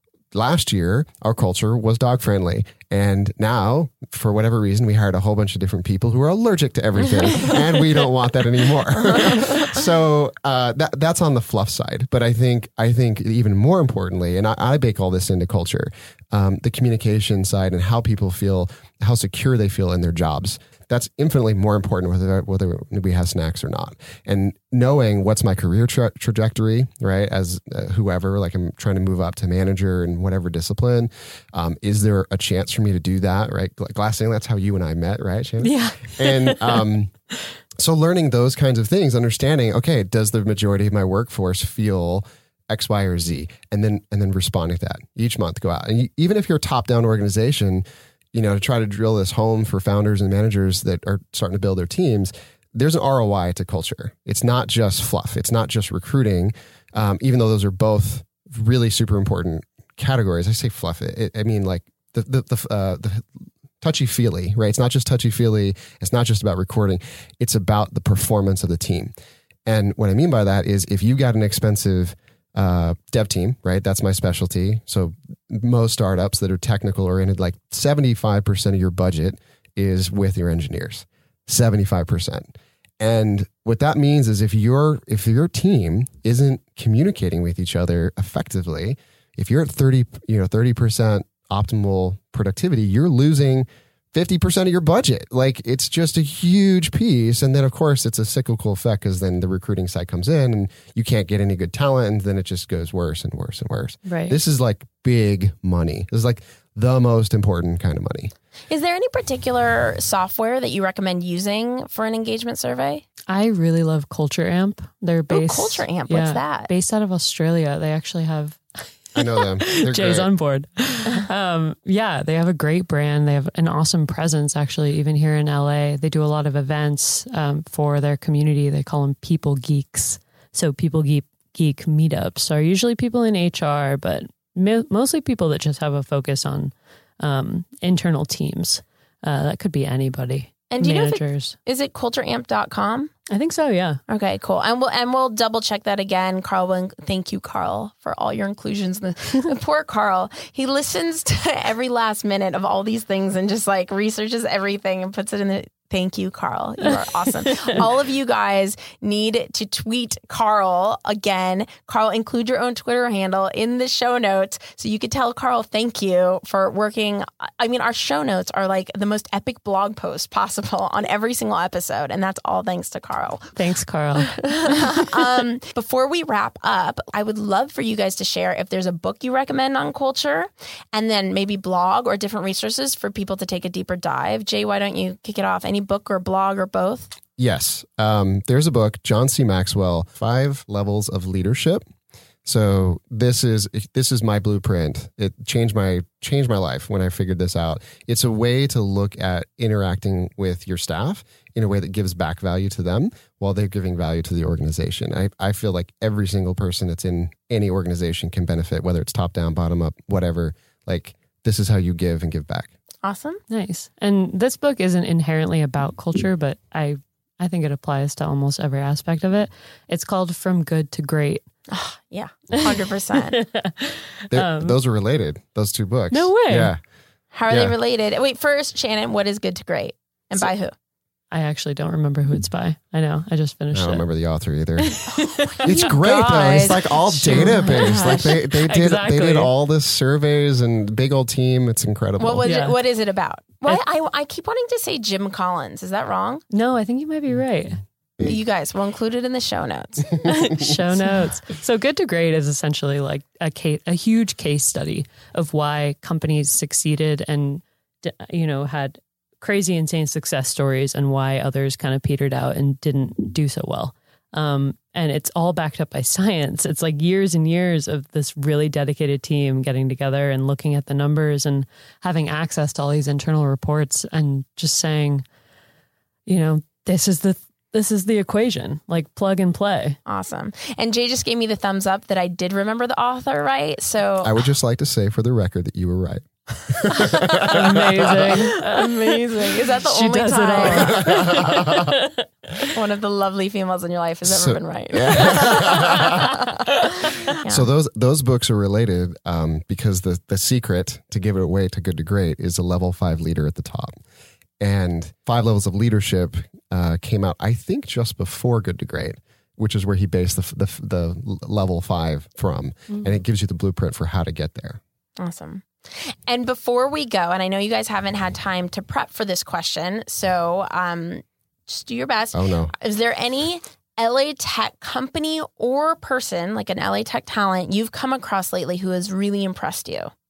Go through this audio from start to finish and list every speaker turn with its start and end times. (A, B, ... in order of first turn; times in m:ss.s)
0:00.3-0:37.1 A
0:35.6-0:36.8 B
0:37.8-1:03.3 A
1:03.8-1:09.1 A
1:09.6-1:48.3 A
1:44.0-1:44.4 B
1:48.7-1:53.0 C
1:53.3-2:21.5 B
1:55.3-1:56.7 C
1:59.1-2:00.3 A
2:20.7-2:23.1 C
2:23.3-2:24.0 B
2:24.1-2:53.6 C
2:53.6-2:54.4 B
2:54.4-3:07.1 C
3:07.4-3:11.8 A
3:12.4-3:32.7 A
3:33.0-3:33.4 C
3:33.5-3:41.4 B
3:41.7-3:43.4 C
3:43.2-3:44.8 B
3:44.3-3:46.8 A
3:46.1-3:46.7 B
3:47.3-3:50.7 C
3:47.5-3:47.7 A
3:51.3-3:54.0 B
3:53.7-4:02.4 A
3:54.8-3:55.5 B
3:55.4-3:58.2 C
3:57.3-3:59.5 B
4:02.2-4:06.4 C
4:02.4-4:02.7 B
4:06.5-4:07.8 B
4:08.2-4:10.3 C
4:10.2-4:35.2 B
4:36.2-4:40.0 B
4:40.0-4:44.4 C
4:44.2-4:48.4 A
4:47.4-4:52.7 B
4:48.4-4:51.4 C
4:50.9-4:51.9 A
4:52.7-4:57.7 C
4:54.2-4:56.3 A
4:57.4-5:04.0 A
5:04.6-5:14.8 A
5:15.2-5:30.1 C
5:22.3-5:22.7 A